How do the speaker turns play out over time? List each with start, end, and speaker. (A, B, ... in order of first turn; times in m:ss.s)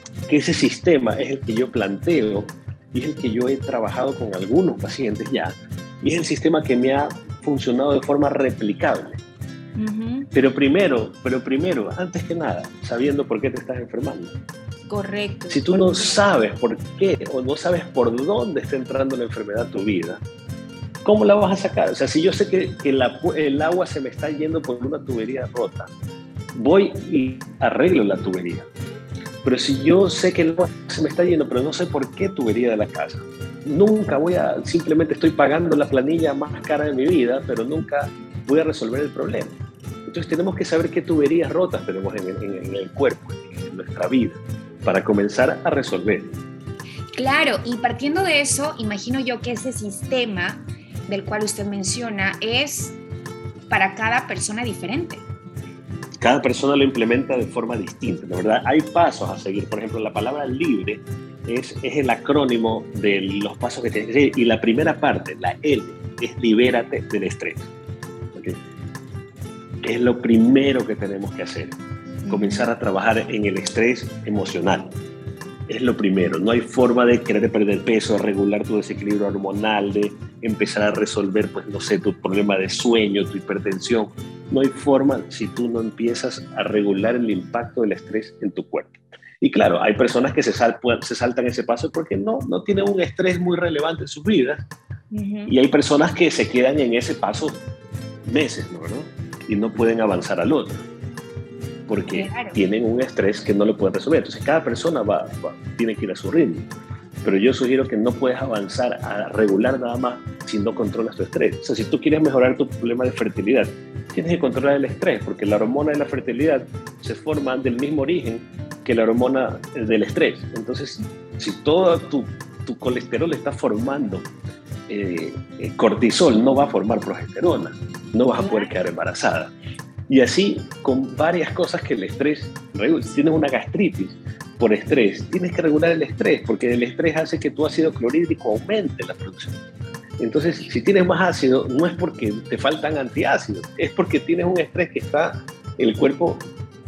0:00.3-0:09.2 A
0:09.8-0:10.3 B
0:10.3-0:14.3 A
0:14.9-0:16.1 B
0:15.5-0:20.2 A
0:21.0-0:25.9 A
0:26.5-0:28.7 A
0:29.4-0:46.3 A
0:47.2-0:53.0 B
0:53.7-0:55.2 B
0:56.2-1:07.7 A
1:08.3-1:08.6 A
1:09.8-1:11.8 A
1:12.2-1:12.7 B
1:12.3-1:15.0 A
1:15.7-1:34.6 A
1:35.1-1:35.5 B
1:35.5-1:37.6 A
1:38.2-1:40.8 A
1:41.9-1:46.7 A
1:42.1-1:42.6 B
1:47.2-2:04.3 A
2:04.9-2:09.5 A
2:08.4-2:08.7 B
2:10.1-2:19.6 A
2:20.2-2:26.5 A